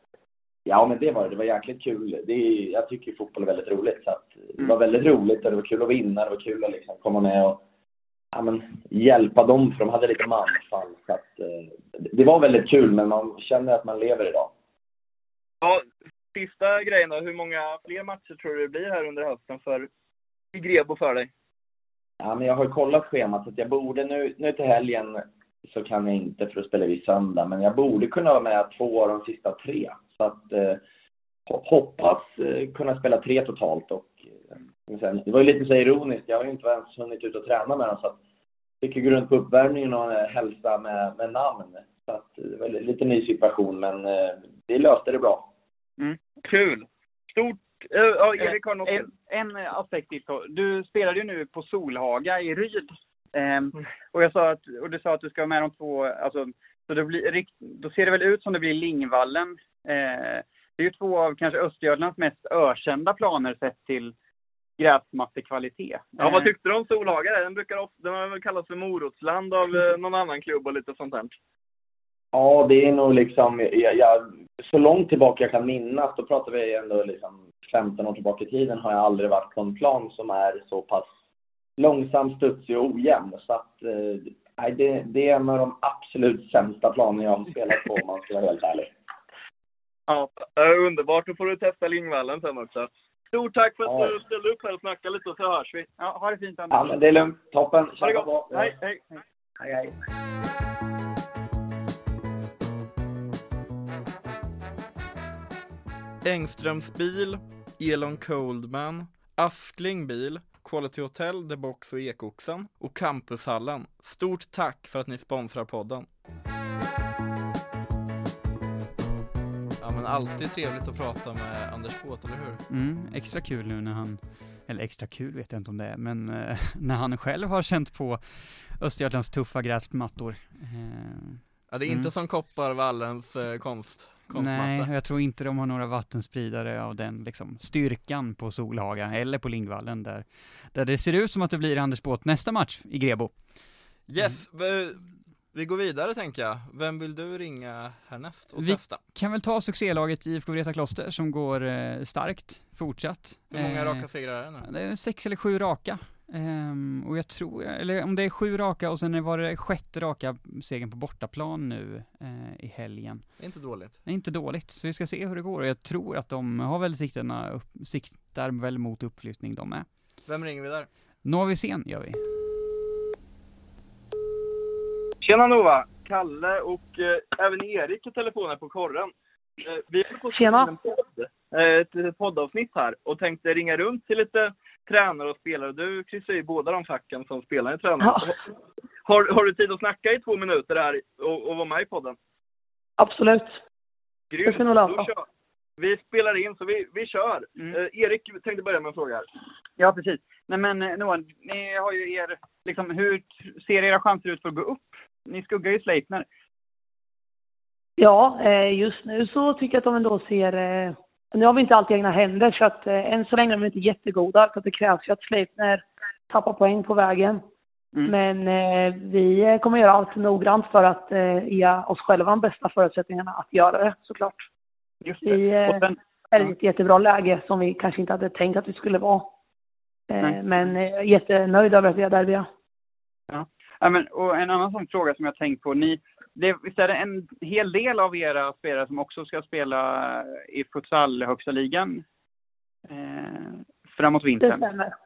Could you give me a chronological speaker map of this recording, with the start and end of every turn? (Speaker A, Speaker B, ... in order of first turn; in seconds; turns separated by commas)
Speaker A: 0.7-7.6, Speaker A: 8.3-14.5, Speaker B: 15.6-19.9, Speaker B: 20.5-21.3, Speaker A: 22.2-30.8, Speaker A: 31.5-38.2, Speaker A: 38.8-45.5, Speaker B: 46.4-49.1, Speaker C: 48.4-64.1, Speaker C: 64.8-66.5, Speaker B: 66.2-71.4, Speaker A: 72.3-81.1, Speaker A: 81.8-88.9, Speaker B: 90.4-95.9, Speaker A: 93.8-94.1, Speaker C: 96.0-96.9, Speaker A: 96.7-98.7, Speaker C: 98.5-99.2, Speaker A: 99.6-99.9, Speaker D: 106.2-116.0, Speaker D: 119.8-122.6, Speaker E: 122.7-132.1, Speaker D: 131.7-134.9, Speaker E: 134.3-144.3, Speaker D: 144.1-149.0, Speaker E: 148.6-169.9, Speaker D: 153.5-154.7, Speaker D: 163.4-164.0, Speaker D: 170.2-170.9, Speaker E: 171.2-172.2, Speaker B: 175.2-188.4, Speaker F: 180.3-180.7, Speaker F: 188.0-188.3, Speaker B: 189.0-192.2, Speaker F: 193.0-193.6, Speaker B: 194.3-195.2, Speaker F: 194.4-195.1, Speaker B: 195.8-199.2, Speaker C: 199.8-206.3, Speaker F: 208.0-217.4, Speaker F: 218.1-224.5, Speaker C: 225.0-226.5, Speaker F: 225.2-229.3, Speaker F: 230.1-232.5, Speaker C: 230.2-230.7, Speaker C: 233.3-242.0, Speaker C: 242.9-244.6, Speaker F: 244.4-244.9